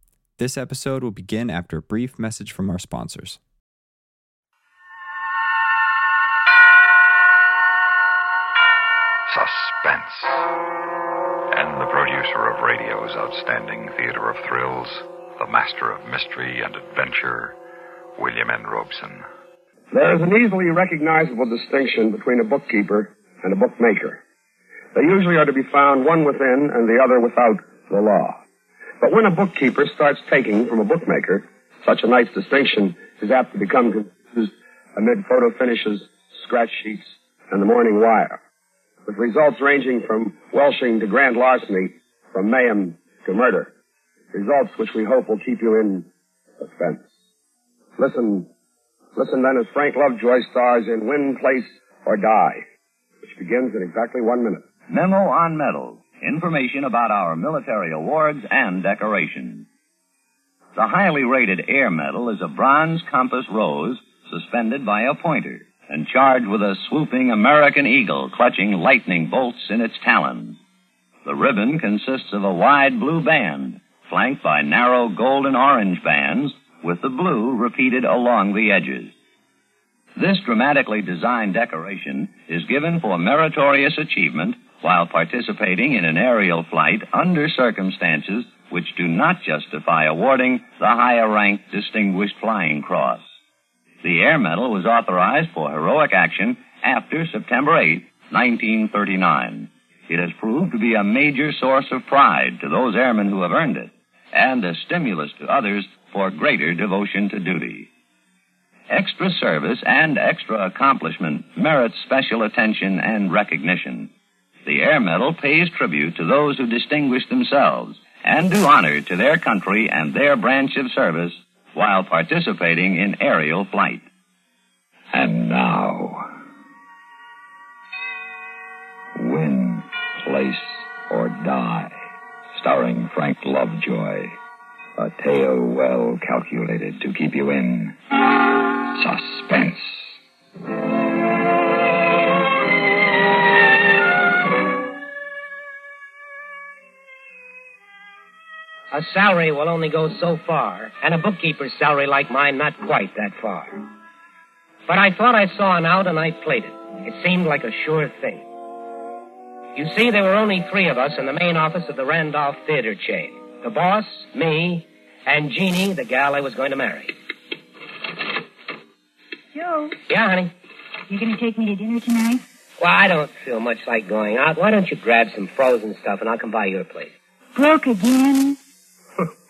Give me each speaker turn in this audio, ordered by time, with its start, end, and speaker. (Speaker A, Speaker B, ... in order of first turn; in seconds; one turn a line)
Speaker A: 0.4-3.4
Speaker B: 9.3-10.4
Speaker B: 11.5-17.5
Speaker B: 18.2-19.2
Speaker C: 19.9-24.2
Speaker C: 24.9-28.4
Speaker C: 29.0-38.4
Speaker C: 39.1-43.7
Speaker C: 44.3-46.1
Speaker C: 46.6-47.0
Speaker C: 48.0-48.5
Speaker C: 49.1-52.6
Speaker C: 53.2-54.6
Speaker D: 54.9-59.6
Speaker D: 60.7-70.6
Speaker D: 71.2-79.1
Speaker D: 80.2-93.2
Speaker D: 94.0-107.9
Speaker D: 108.9-114.1
Speaker D: 114.6-124.0
Speaker B: 125.1-126.3
Speaker B: 129.1-132.0
Speaker B: 132.5-134.4
Speaker B: 134.9-138.0
Speaker B: 138.9-140.1
Speaker E: 148.9-153.7
Speaker E: 154.9-158.4
Speaker E: 159.8-167.1
Speaker F: 169.5-169.9
Speaker E: 170.1-170.5
Speaker F: 171.1-172.4
Speaker E: 172.8-177.1
Speaker F: 177.5-178.6